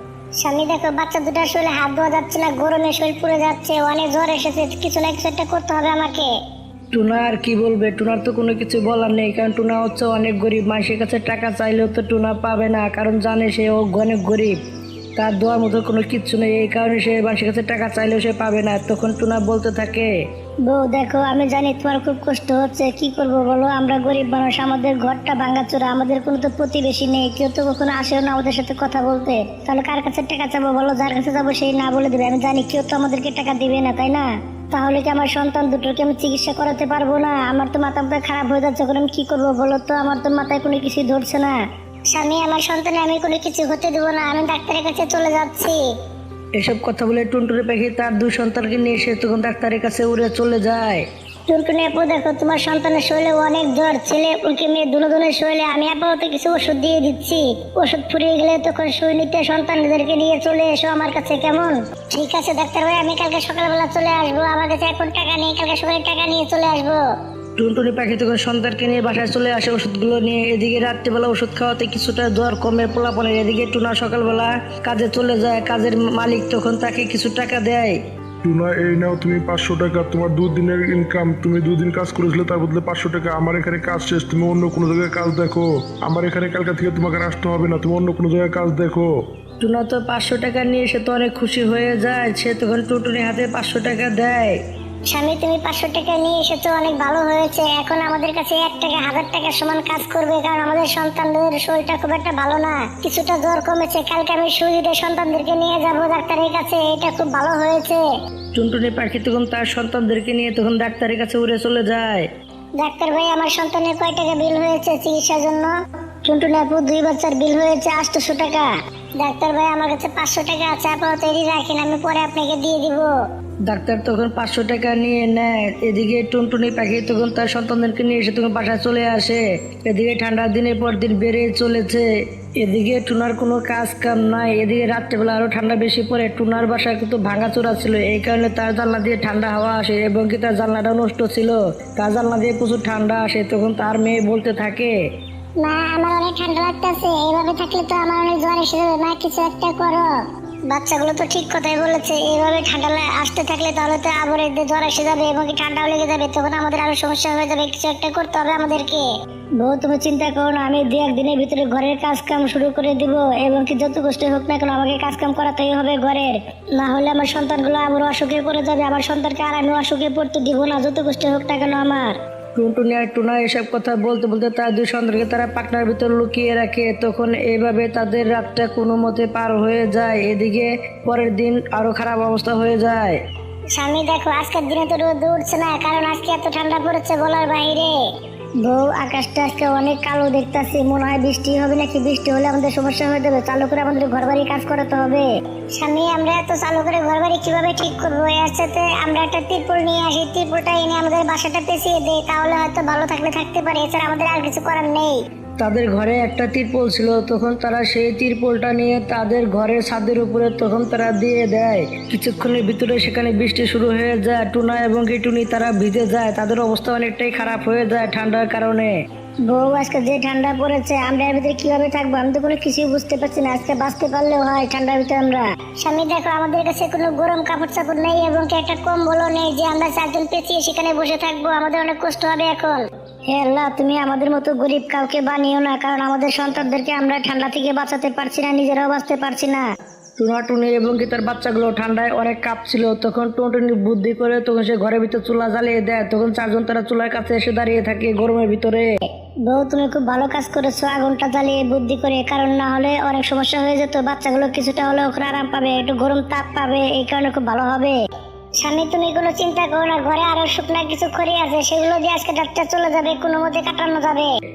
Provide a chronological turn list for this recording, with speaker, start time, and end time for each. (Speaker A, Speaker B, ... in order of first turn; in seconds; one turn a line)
Speaker A: 0.4-6.3
Speaker B: 6.9-14.6
Speaker B: 15.2-20.1
Speaker A: 20.6-41.6
Speaker A: 42.1-45.9
Speaker B: 46.6-51.1
Speaker A: 51.5-67.0
Speaker B: 67.6-78.0
Speaker C: 78.4-89.1
Speaker B: 89.6-94.6
Speaker A: 95.1-108.0
Speaker B: 108.5-112.3
Speaker A: 112.8-123.1
Speaker B: 123.7-144.9
Speaker A: 145.6-150.1
Speaker A: 150.7-172.2
Speaker B: 172.6-183.2
Speaker A: 183.7-188.0
Speaker A: 188.6-205.2
Speaker B: 205.6-218.9
Speaker A: 219.5-239.7
Speaker B: 240.2-248.9
Speaker A: 249.5-258.0
Speaker A: 258.6-264.3